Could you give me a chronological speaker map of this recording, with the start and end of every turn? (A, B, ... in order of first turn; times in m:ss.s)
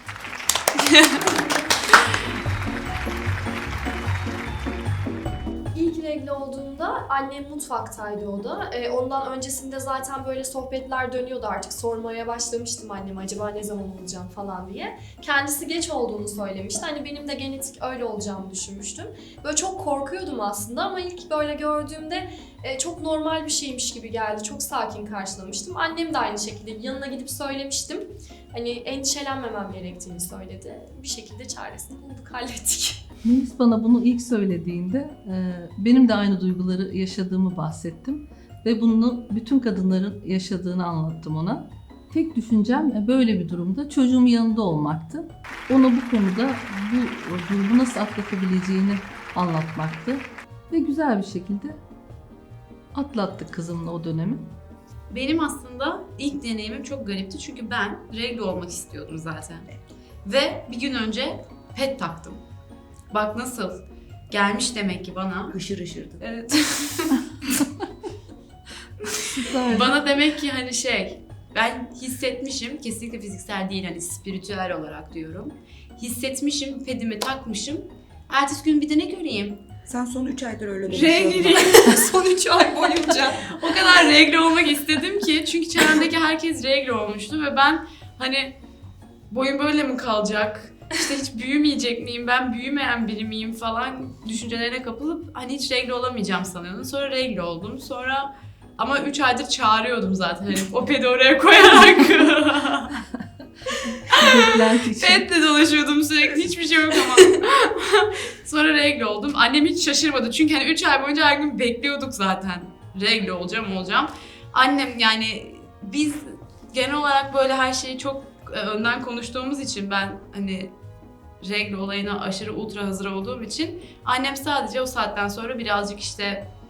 0:00.7-0:02.1 A
0:05.7-0:33.0 B
0:33.2-0:51.8 C
0:52.9-0:54.5 C
0:55.1-0:59.7 A
1:00.2-1:02.4 A
1:03.1-1:05.6 A
1:05.5-1:06.2 D
1:06.2-1:07.5 A
1:09.0-1:19.6 A
1:09.4-1:09.9 C
1:19.9-1:21.7 D
1:20.9-1:22.0 A
1:21.5-1:23.6 B
1:23.4-1:28.6 A
1:29.3-1:43.0 A
1:43.7-1:45.2 C
1:44.0-2:00.7 A
2:01.4-2:06.5 A